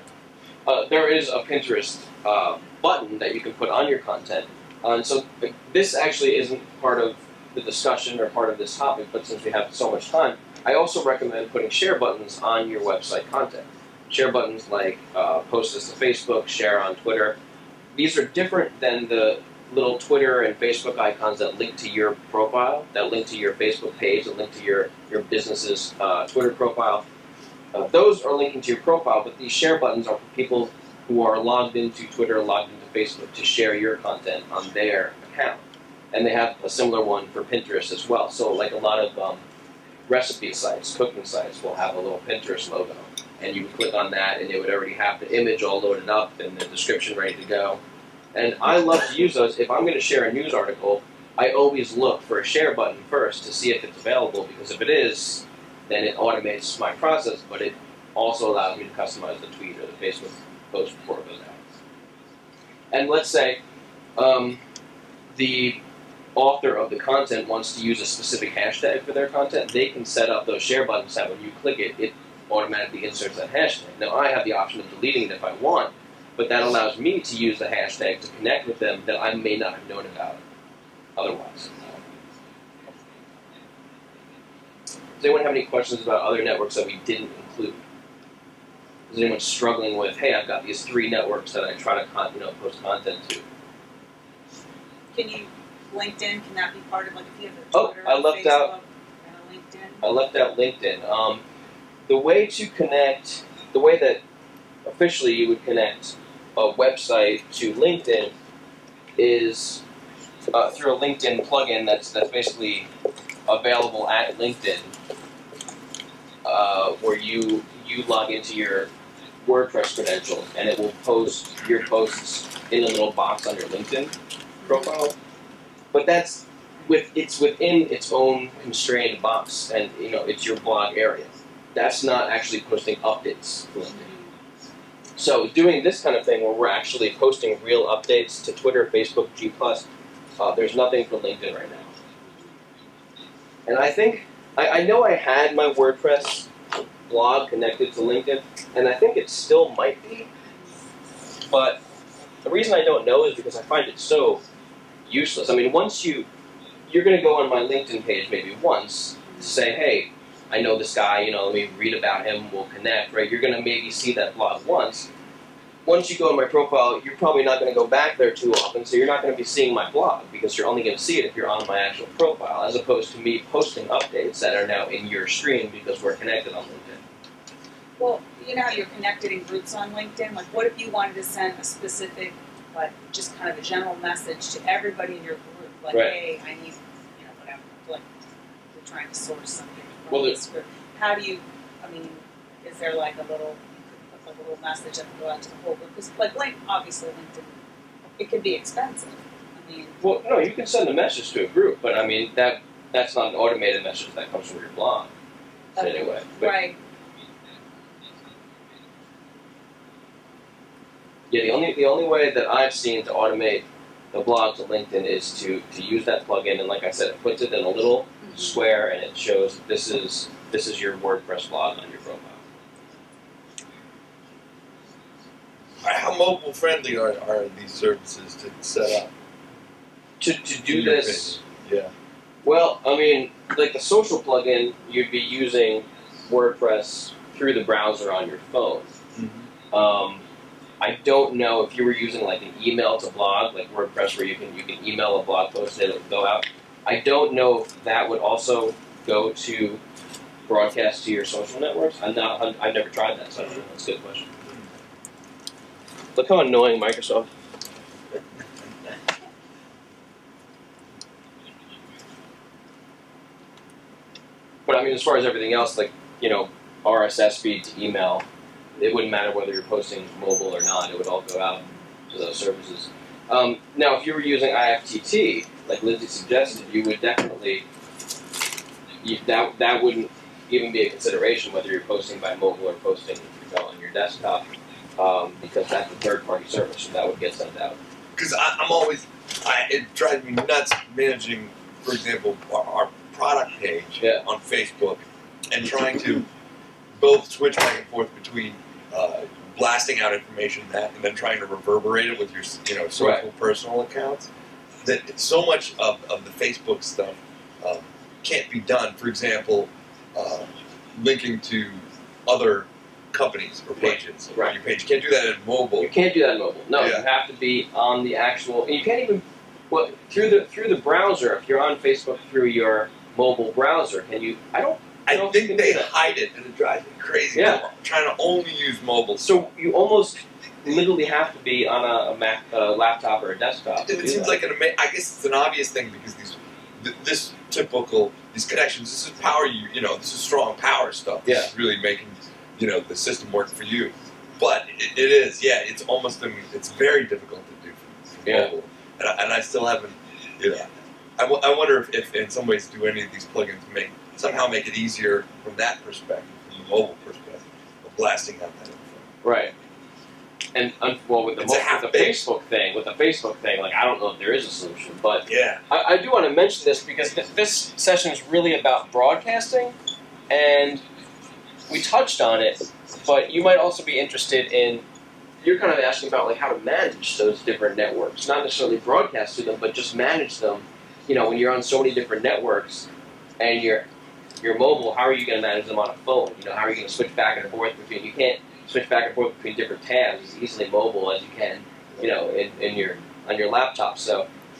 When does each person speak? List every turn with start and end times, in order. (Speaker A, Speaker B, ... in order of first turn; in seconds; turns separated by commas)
Speaker A: 0.7-17.4, Speaker A: 17.9-27.1, Speaker A: 27.7-39.4, Speaker A: 40.1-47.8, Speaker A: 48.3-61.6, Speaker A: 62.9-63.6, Speaker A: 64.2-64.6, Speaker A: 65.3-65.8, Speaker A: 66.3-80.4, Speaker A: 81.2-82.0, Speaker A: 85.2-87.8, Speaker A: 89.1-93.4, Speaker B: 95.1-100.0, Speaker A: 97.7-98.7, Speaker A: 100.0-101.4, Speaker A: 102.1-104.2, Speaker A: 104.8-108.3, Speaker A: 109.2-109.8, Speaker A: 110.5-112.9, Speaker A: 113.5-114.9, Speaker A: 116.4-118.9, Speaker A: 119.4-124.1, Speaker A: 124.6-125.2, Speaker A: 125.9-134.1, Speaker B: 134.0-134.3, Speaker A: 135.2-139.9, Speaker A: 140.4-141.9, Speaker B: 142.3-142.6, Speaker A: 143.7-146.5, Speaker A: 147.1-150.3, Speaker B: 150.5-150.8, Speaker A: 151.5-151.8, Speaker A: 152.4-154.4, Speaker A: 155.1-156.3, Speaker A: 156.9-165.1, Speaker B: 159.3-159.5, Speaker A: 165.8-177.0, Speaker B: 178.0-188.0, Speaker A: 185.9-186.2, Speaker B: 188.7-197.5, Speaker A: 190.1-190.4, Speaker B: 198.2-200.0, Speaker A: 200.0-205.1, Speaker B: 205.8-206.8, Speaker A: 205.8-206.6, Speaker A: 211.3-222.4, Speaker C: 225.8-229.1, Speaker A: 230.2-231.4, Speaker C: 230.7-231.9, Speaker A: 232.4-238.9, Speaker C: 239.2-239.5, Speaker A: 239.7-240.2, Speaker A: 240.8-249.8, Speaker A: 250.5-254.3, Speaker A: 256.1-257.3, Speaker A: 264.6-268.2, Speaker A: 268.8-277.6, Speaker A: 279.0-284.5, Speaker A: 285.0-287.8, Speaker C: 288.1-296.3, Speaker A: 294.0-294.2, Speaker C: 297.0-304.3, Speaker A: 303.0-303.2, Speaker C: 304.8-315.9, Speaker A: 313.8-314.6, Speaker A: 315.8-325.9, Speaker C: 316.7-317.1, Speaker C: 325.1-329.5, Speaker A: 327.3-327.6, Speaker A: 329.2-334.4, Speaker C: 333.8-359.1, Speaker A: 341.2-341.5, Speaker A: 348.2-348.5, Speaker A: 359.2-359.5, Speaker A: 360.5-369.8, Speaker C: 361.4-362.3, Speaker C: 365.2-365.6, Speaker A: 370.3-370.8, Speaker A: 371.7-374.8, Speaker A: 375.4-382.9, Speaker A: 383.4-383.9, Speaker A: 384.4-394.3